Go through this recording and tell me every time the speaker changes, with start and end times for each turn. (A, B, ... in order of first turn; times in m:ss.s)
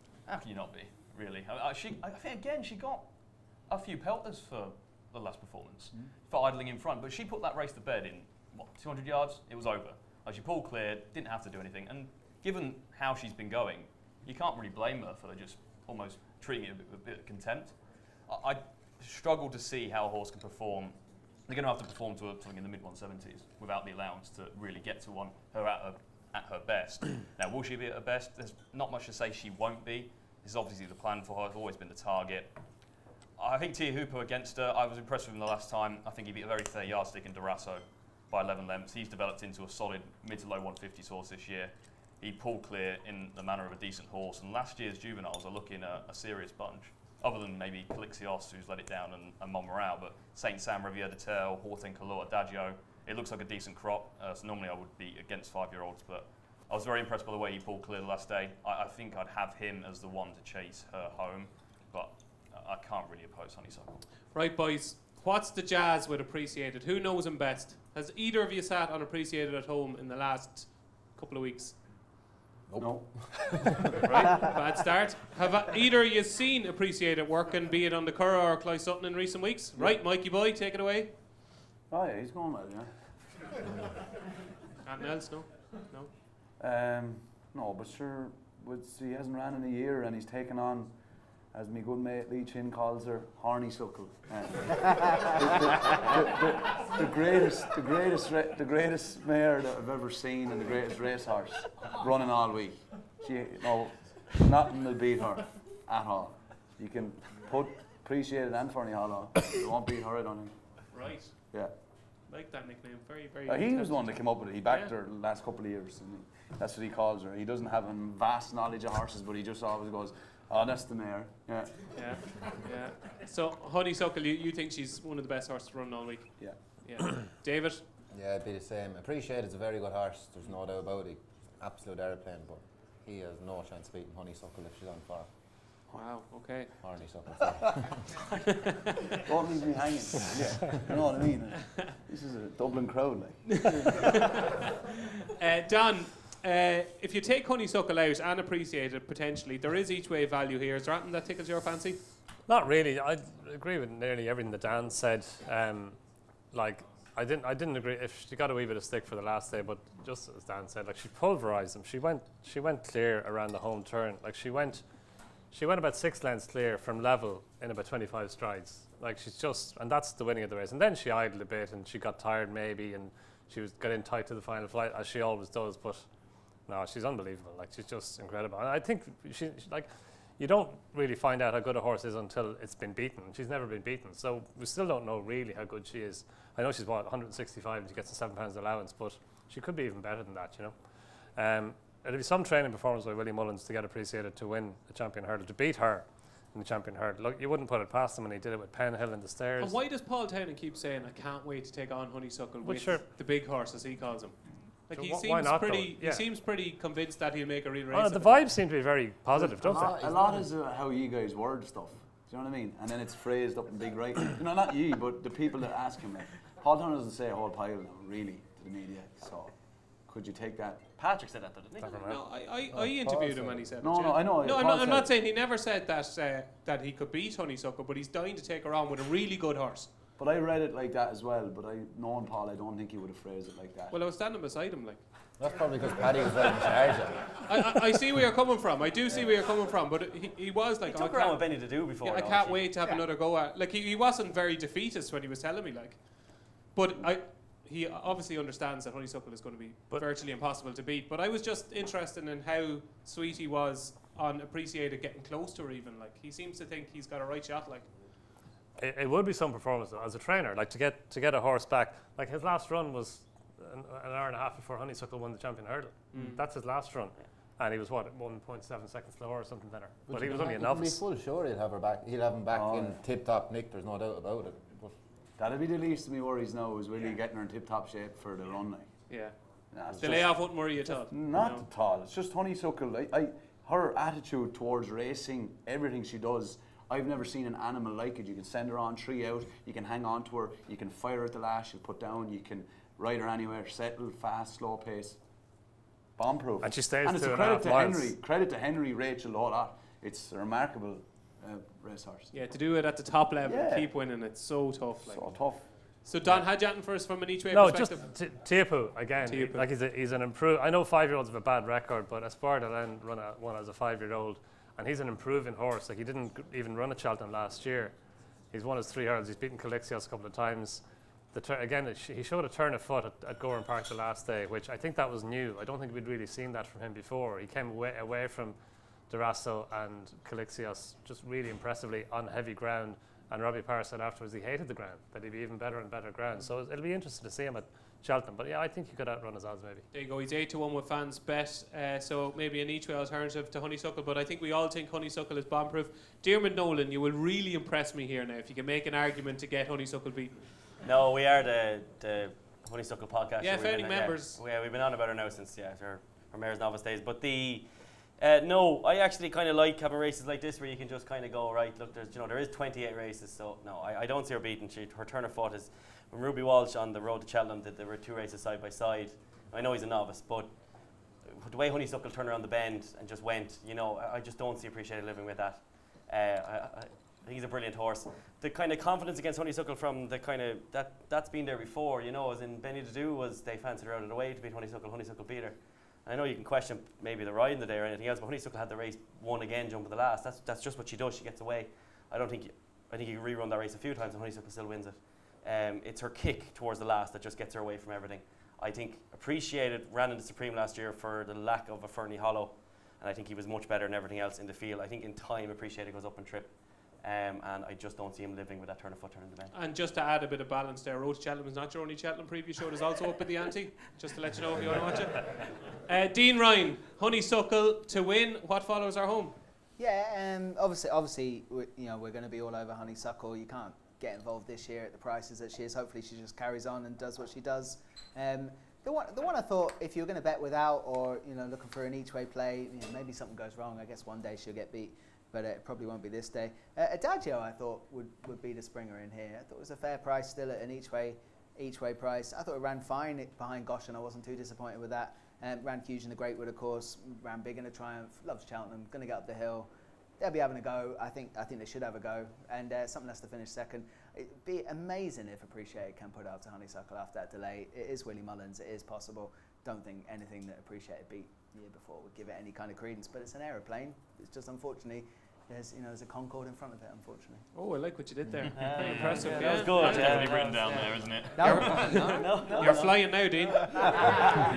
0:00.2-1:04.1 A
1:04.3-1:11.8 B
1:12.7-1:13.9 C
1:12.8-1:13.7 D
1:14.0-1:21.2 B
1:21.9-1:23.2 D
1:24.8-1:26.1 B
1:26.6-1:34.8 D
1:35.3-1:50.8 D
1:50.9-1:54.9 B
1:51.5-1:51.8 D
1:53.4-2:02.4 D
2:01.9-2:07.8 B
2:06.4-2:06.8 D
2:08.1-2:15.5 C
2:15.9-2:16.9 B
2:16.8-2:18.3 C
2:19.2-2:23.9 D
2:23.7-2:24.6 B
2:25.3-2:32.1 B
2:32.4-2:44.9 E
2:45.5-2:56.1 E
2:56.6-3:19.8 E
3:19.6-3:28.5 B
3:22.6-3:23.0 E
3:24.9-3:26.3 E
3:27.9-3:30.0 E
3:29.3-3:41.0 D
3:29.7-3:30.4 C
3:41.0-3:42.0 F
3:41.8-3:42.8 E
3:41.8-3:49.9 B
3:42.9-3:45.2 D
3:50.2-3:54.0 D
3:53.9-3:55.1 B
3:55.4-3:57.5 C
3:57.4-4:17.9 B
4:00.8-4:03.0 F
4:18.8-4:31.0 E
4:26.1-4:26.4 B
4:30.0-4:34.9 C
4:32.5-4:33.0 D
4:35.4-4:39.0 D
4:39.1-4:39.4 B
4:39.7-5:02.4 D
4:40.0-4:41.6 B
4:56.6-4:58.1 E
5:02.3-5:08.1 B
5:03.4-5:03.9 D
5:05.0-5:05.8 D
5:06.2-5:06.5 E
5:07.5-5:18.0 E
5:09.2-5:09.7 B
5:18.5-5:28.6 E
5:29.1-5:39.8 E
5:39.9-5:50.7 B
5:50.8-6:49.5 F
5:53.4-5:54.4 B
6:49.5-6:59.4 B
6:59.8-7:29.7 G
7:30.2-7:47.5 G
7:47.5-7:54.2 B
7:48.5-7:53.3 F
7:48.7-7:52.0 A
7:51.3-7:52.8 G
7:53.7-7:54.1 G